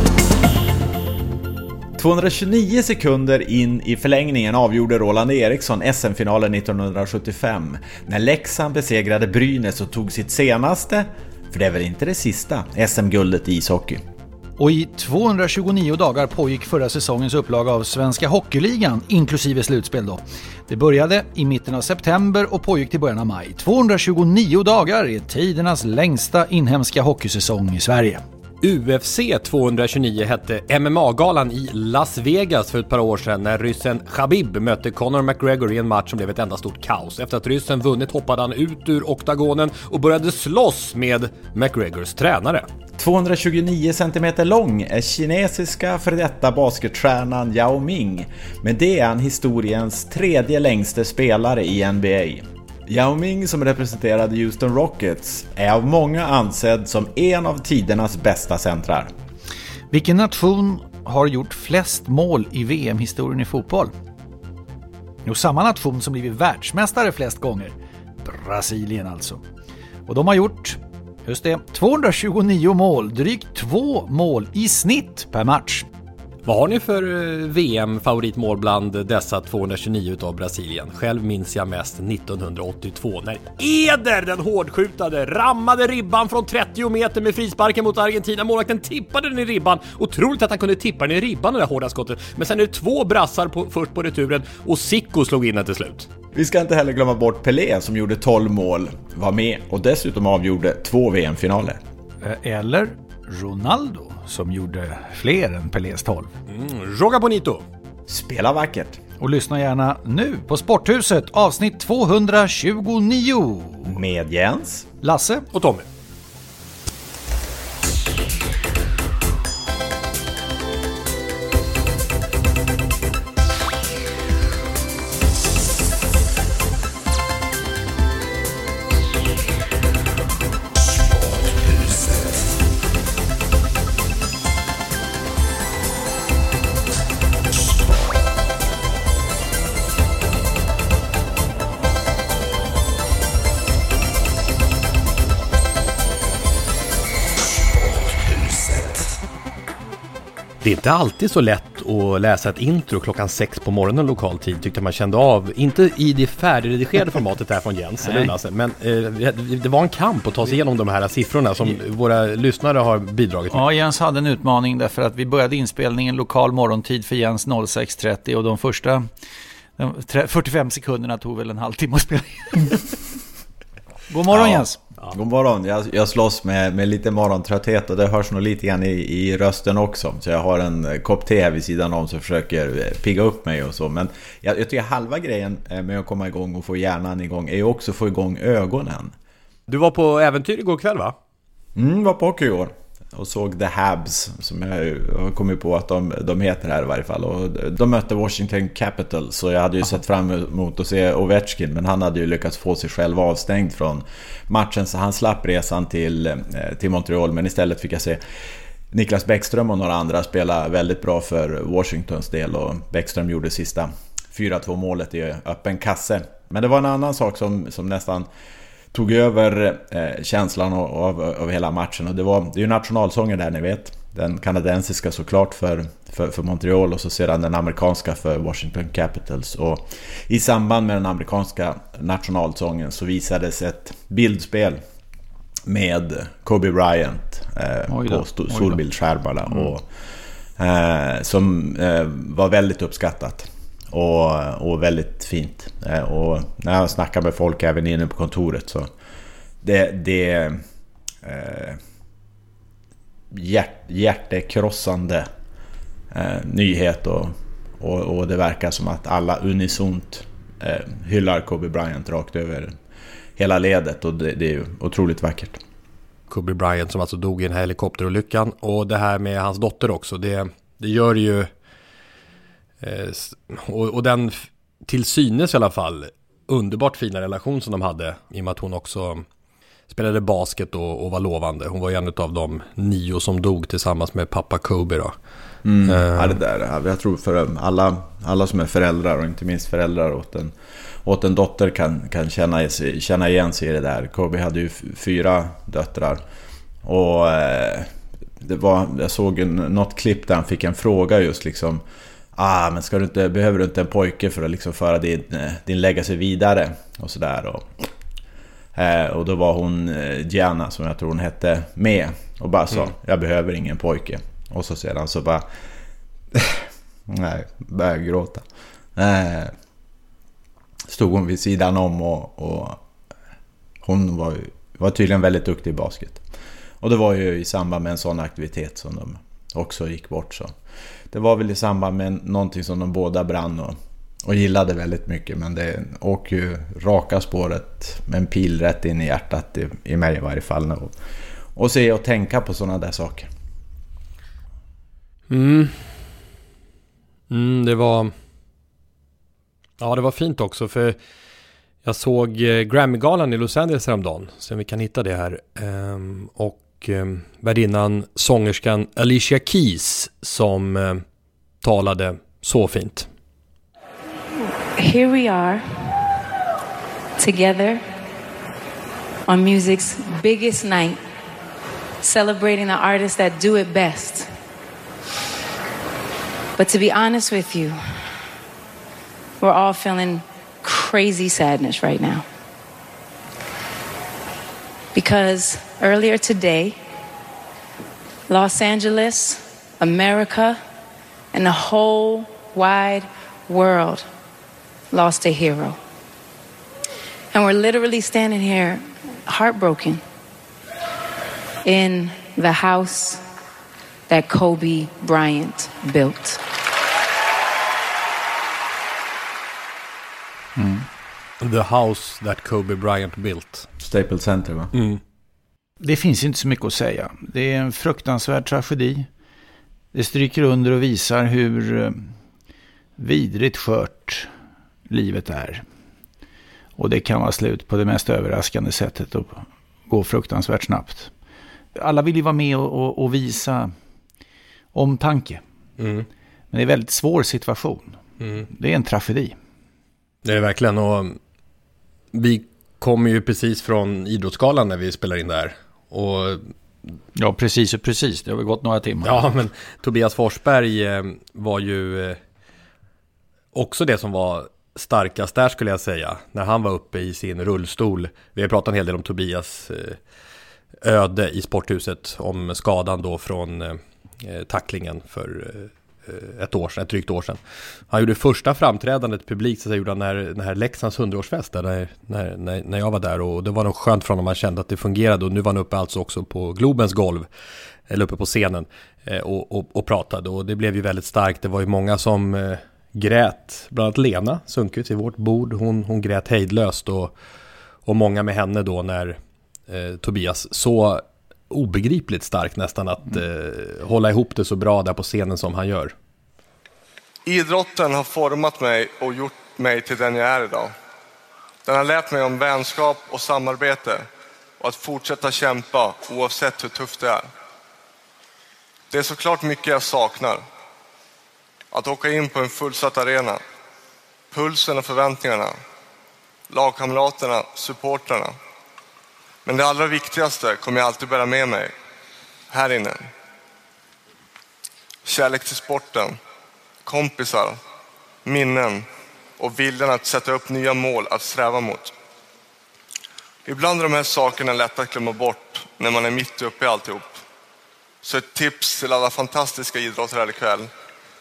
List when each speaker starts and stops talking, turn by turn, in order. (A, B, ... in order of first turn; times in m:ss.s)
0:02.0-0:14.0 A
0:14.6-0:28.2 B
0:28.6-0:42.7 C
0:43.0-0:59.1 A
0:59.9-1:03.9 B
1:05.2-1:09.4 B
1:10.1-1:15.9 B
1:16.4-1:36.1 C
1:36.3-1:41.8 A
1:42.2-1:46.3 B
1:46.5-1:47.6 C
1:48.1-1:49.0 A
1:49.2-1:53.9 B
1:53.8-1:54.9 A
1:55.0-1:55.5 B
1:55.5-1:55.9 C
2:30.6-2:43.6 C
2:38.0-2:38.3 B
2:43.5-2:49.1 B
2:49.8-2:52.9 B
2:54.1-2:54.8 B
2:54.3-3:09.2 A
3:09.7-3:11.2 C
3:11.8-3:28.2 A
3:28.9-3:38.3 A
3:38.9-3:54.8 A
3:55.7-3:59.9 A
3:57.9-3:58.8 B
4:00.6-4:08.9 A
4:09.6-4:10.6 A
4:11.2-4:11.8 A
4:13.3-4:15.3 A
4:16.1-4:22.8 A
4:23.4-4:25.6 A
4:26.3-4:31.5 C
4:32.8-4:39.2 C
4:39.9-4:45.1 C
4:45.6-4:50.5 A
4:45.9-4:46.4 C
4:51.0-4:56.2 A
4:56.8-4:57.9 A
4:58.4-5:01.8 A
5:02.4-5:07.9 A
5:08.8-5:15.4 A
5:16.3-5:18.4 A
5:19.0-5:19.5 A
5:20.9-5:22.8 A
5:23.8-5:26.2 A
5:26.8-5:30.5 A
5:31.1-5:41.0 A
5:41.6-5:43.3 A
5:45.3-5:45.9 C
5:47.3-5:48.1 C
5:49.8-5:51.0 C
5:51.8-6:01.0 C
6:01.6-6:03.1 C
6:04.8-6:05.9 D
6:07.2-6:07.8 D
6:09.3-6:11.0 D
6:12.0-6:14.3 D
6:16.6-6:17.8 D
6:19.4-6:22.2 D
6:24.9-6:26.8 D
6:28.3-6:30.6 D
6:31.3-6:34.1 D
6:34.9-6:35.8 D
6:37.3-6:40.0 D
6:41.6-6:43.2 D
6:44.1-6:46.4 D
6:50.6-6:50.9 B
6:51.4-6:53.7 C
6:53.8-6:54.7 A
6:54.8-6:55.0 C
6:55.8-6:59.1 B
6:59.9-7:02.1 B
7:03.0-7:04.3 B
7:04.9-7:05.6 B
7:06.8-7:11.1 B
7:11.8-7:13.7 B
7:14.7-7:15.4 B
7:15.8-7:16.1 C
7:16.5-7:19.4 B
7:18.2-7:18.5 C
7:20.2-7:21.2 C
7:22.1-7:26.5 C
7:27.2-7:29.2 B
7:29.0-7:32.2 C
7:33.5-7:40.0 C
7:40.8-7:47.4 C
7:47.9-7:57.3 C
7:57.9-8:07.1 C
8:07.8-8:09.2 C
8:09.7-8:15.9 C
8:17.3-8:20.7 E
8:21.7-8:24.1 E
8:24.6-8:27.3 E
8:28.9-8:30.4 E
8:31.7-8:33.4 E
8:34.3-8:35.6 E
8:36.5-8:38.4 E
8:39.5-8:41.7 E
8:42.5-8:43.1 E
8:45.0-8:46.2 E
8:46.8-8:47.6 E
8:48.2-8:48.9 E
8:49.4-8:51.9 E
8:53.5-8:57.2 E
8:58.0-9:00.7 E